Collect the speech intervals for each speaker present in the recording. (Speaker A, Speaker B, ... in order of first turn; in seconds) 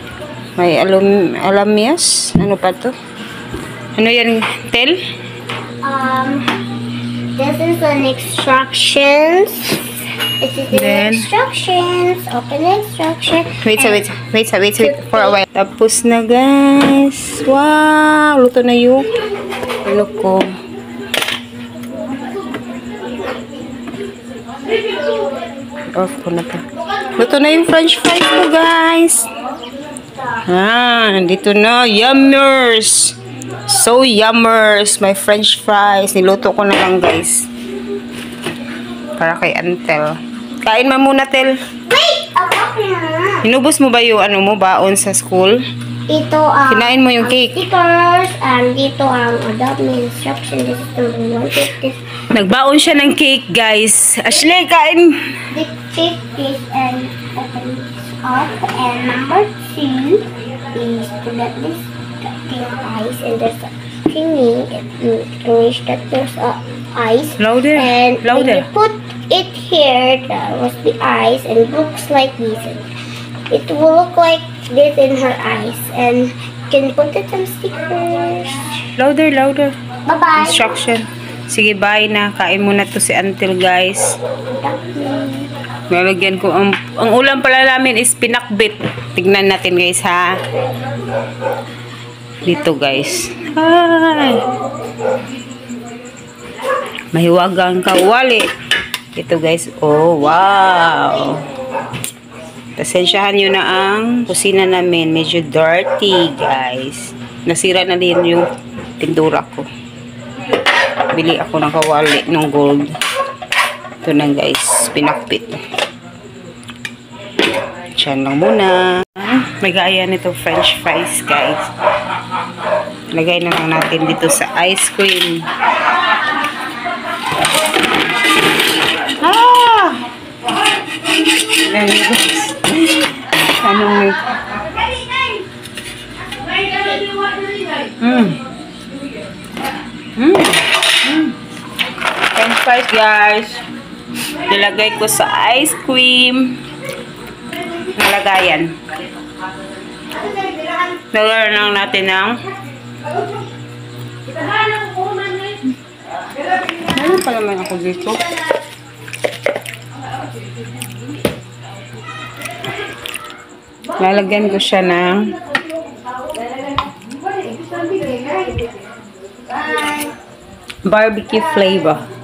Speaker A: 0.6-2.9, 4.0-5.0, 10.7-11.3, 13.6-19.1, 19.8-20.5, 25.9-26.6, 27.2-29.3, 30.5-33.1, 33.7-37.5, 39.2-41.5, 43.4-45.6, 46.7-47.6, 52.3-55.1, 67.4-68.7, 79.0-79.7, 80.4-84.2, 85.9-90.3, 92.4-94.4, 97.1-98.5, 99.2-101.4, 102.8-108.5, 109.0-109.7, 111.1-112.9, 114.0-115.5, 118.0-121.7, 123.1-125.4, 129.2-130.0, 131.5-133.0, 133.6-134.2, 138.0-138.4, 140.2-141.3, 142.3-143.6, 144.5-146.6, 147.9-148.8, 151.1-152.4, 156.9-158.2, 164.0-165.3, 170.9-172.0
Speaker B: 5.8-6.5, 7.3-9.8, 10.4-14.0, 14.8-15.4, 41.9-43.5, 46.1-52.0, 55.5-72.9, 73.5-78.6, 80.1-80.8, 84.5-85.5, 92.5-93.0, 169.7-170.1